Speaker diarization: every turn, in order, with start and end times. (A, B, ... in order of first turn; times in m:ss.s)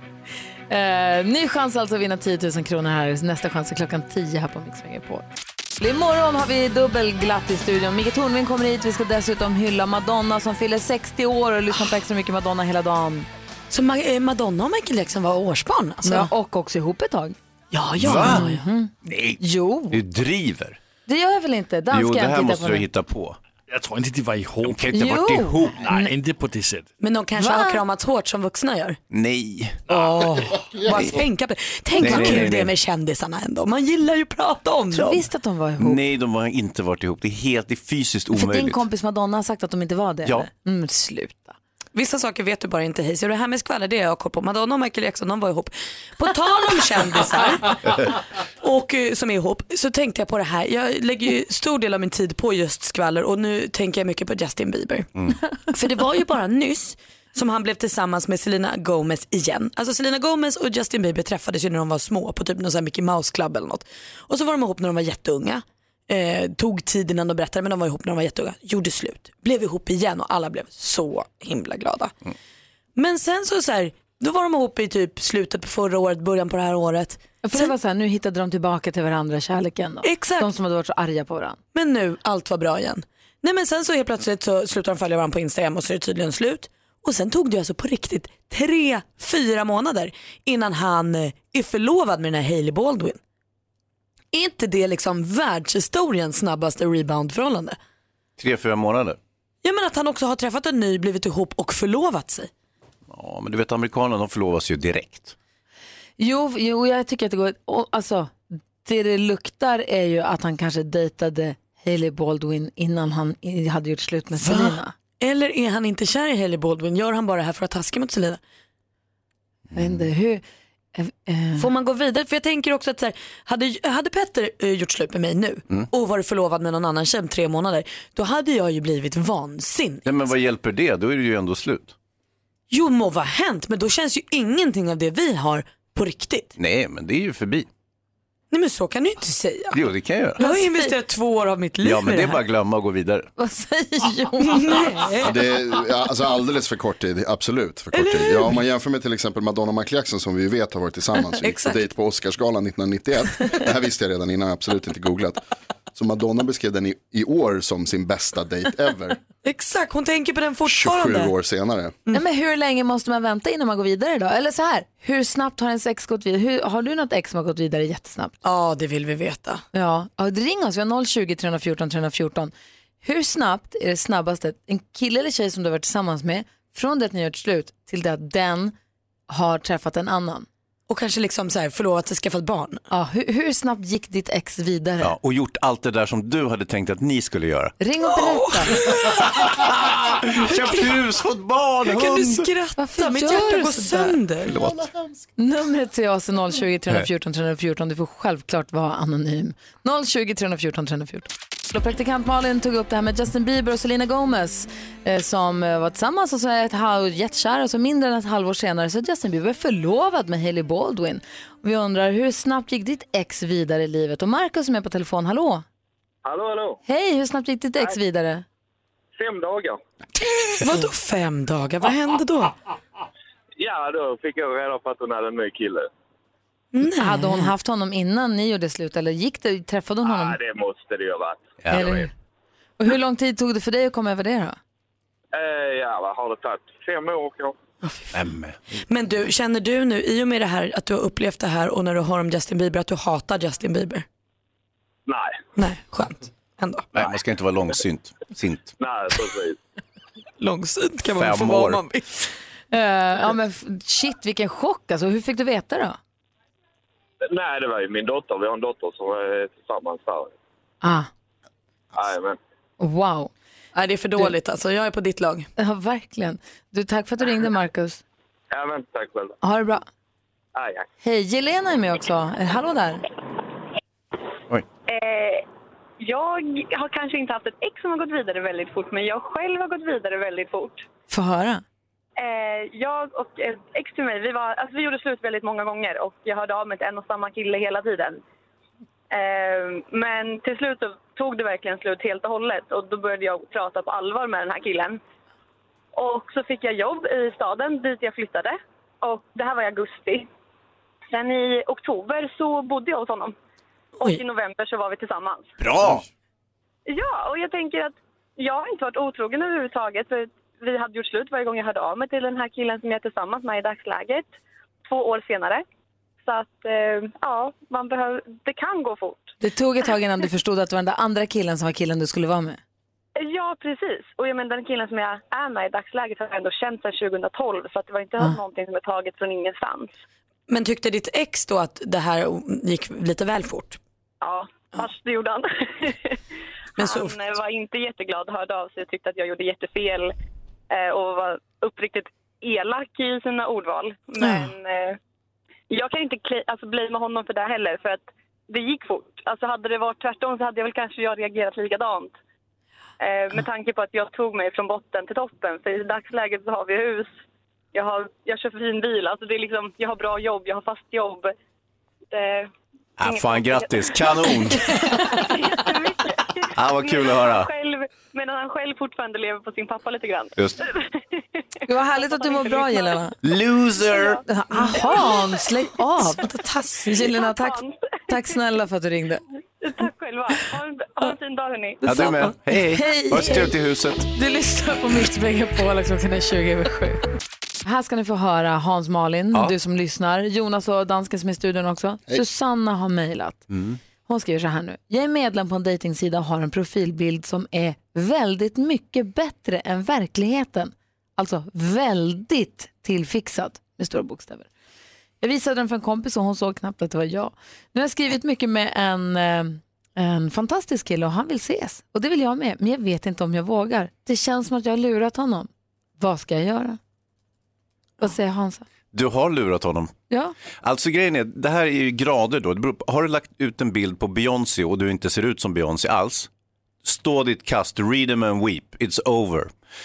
0:00.7-0:05.2 A
0:05.8-0:13.3 A
0:13.7-0:16.3 B
0:16.0-0:17.4 A
0:17.7-0:18.6 B
0:18.0-0:18.4 C
0:18.1-0:20.0 A
0:19.0-0:19.4 C
0:19.9-0:20.8 C
0:21.1-0:22.9 A
0:21.9-0:23.4 C
0:23.7-0:24.9 D
0:24.6-0:25.9 C
0:24.9-0:26.1 A
0:25.8-0:26.9 D
0:27.0-0:29.0 B
0:27.4-0:27.8 A
0:29.1-0:29.8 C
0:29.9-0:35.2 B
0:30.8-0:31.1 E
0:32.0-0:32.5 A
0:32.0-0:32.7 C
0:34.9-0:36.0 A
0:35.8-0:38.8 C
0:38.3-0:41.6 A
0:41.9-0:47.8 B
0:48.6-0:55.1 B
0:55.7-1:12.1 B
1:13.0-1:17.7 B
1:17.4-1:21.6 A
1:20.0-1:20.5 B
1:21.7-1:33.2 B
1:34.3-1:37.8 B
1:38.4-1:39.2 C
1:39.6-1:42.5 B
1:43.1-1:45.3 C
1:46.2-1:48.3 A
1:48.8-1:54.9 A
1:54.4-1:58.4 B
1:59.7-2:00.0 C
1:59.7-2:00.4 A
2:00.9-2:01.7 A
2:01.6-2:10.0 B
2:10.0-2:11.9 C
2:12.7-2:16.5 B
2:16.6-2:17.7 C
2:18.5-2:19.8 B
2:19.7-2:20.4 C
2:20.4-2:22.4 B
2:20.4-2:20.9 A
2:21.8-2:23.3 C
2:23.4-2:25.1 A
2:24.5-2:25.3 B
2:25.2-2:35.4 E
2:27.9-2:28.6 B
2:31.4-2:31.8 B
2:35.9-2:39.2 E
2:39.4-2:41.3 B
2:40.6-2:42.0 E
2:42.1-2:48.3 A
2:48.4-2:49.6 B
2:49.7-2:52.5 A
2:53.0-2:58.7 A
2:59.3-3:00.5 A
3:00.9-3:02.8 B
3:02.9-3:05.1 A
3:05.0-3:07.7 C
3:07.8-3:08.7 A
3:08.1-3:09.4 B
3:09.3-3:12.5 C
3:11.8-3:14.6 B
3:12.8-3:14.2 A
3:14.4-3:14.9 C
3:15.4-3:35.6 A
3:36.2-3:36.8 F
3:36.9-3:38.4 A
3:39.2-3:39.8 F
3:40.6-3:42.5 B
3:43.6-3:45.9 F
3:46.7-3:47.5 B
3:46.9-3:50.4 A
3:50.0-3:51.9 F
3:51.6-3:52.0 C
3:51.7-3:52.1 A
3:52.8-3:54.6 A
3:55.3-3:57.5 F
3:57.8-3:58.2 B
3:58.1-3:58.6 C
3:58.9-4:04.0 B
4:05.1-4:05.3 F
4:05.6-4:06.9 B
4:06.9-4:08.8 C
4:08.8-4:09.6 F
4:10.4-4:12.3 B
4:11.1-4:11.8 C
4:12.7-4:16.0 A
4:17.3-4:20.3 F
4:20.8-4:21.1 A
4:21.9-4:22.4 F
4:22.8-4:23.3 A
4:23.7-4:25.5 B
4:25.6-4:28.0 A
4:28.5-4:29.3 F
4:29.4-4:29.8 A
4:30.6-4:30.8 F
4:31.0-4:33.0 A
4:34.9-4:35.4 G
4:36.0-4:40.8 G
4:41.1-4:41.6 A
4:42.2-4:48.2 G
4:49.1-4:55.0 G
4:55.9-5:00.3 G
5:01.1-5:03.3 G
5:04.0-5:05.5 G
5:05.6-5:06.0 C
5:06.9-5:14.3 G
5:14.8-5:15.6 G
5:16.2-5:19.3 G
5:19.4-5:22.6 A
5:23.2-5:29.9 G
5:30.5-5:33.8 B
5:34.2-5:36.2 G
5:36.8-5:37.1 B
5:36.8-5:40.1 G
5:40.7-5:45.0 G
5:45.7-5:52.1 G
5:53.0-5:57.1 G
5:57.7-6:01.3 G
6:02.1-6:02.5 G
6:03.0-6:05.0 C
6:03.0-6:04.0 G
6:05.0-6:11.2 G
6:06.5-6:07.5 C
6:10.4-6:10.6 C
6:11.7-6:13.2 A
6:11.9-6:13.0 G
6:13.2-6:14.2 C
6:13.8-6:14.2 G
6:14.2-6:19.2 A
6:16.1-6:17.1 B
6:17.0-6:18.4 G
6:19.6-6:21.8 G
6:21.8-6:24.0 C
6:22.7-6:23.5 A
6:24.1-6:27.0 A
6:27.6-6:33.4 A
6:33.5-6:33.8 C
6:34.1-6:44.5 A
6:45.2-6:56.8 A
6:58.0-6:58.6 A
6:58.9-6:59.9 C
7:00.1-7:00.3 A
7:00.6-7:06.3 C
7:06.8-7:09.5 C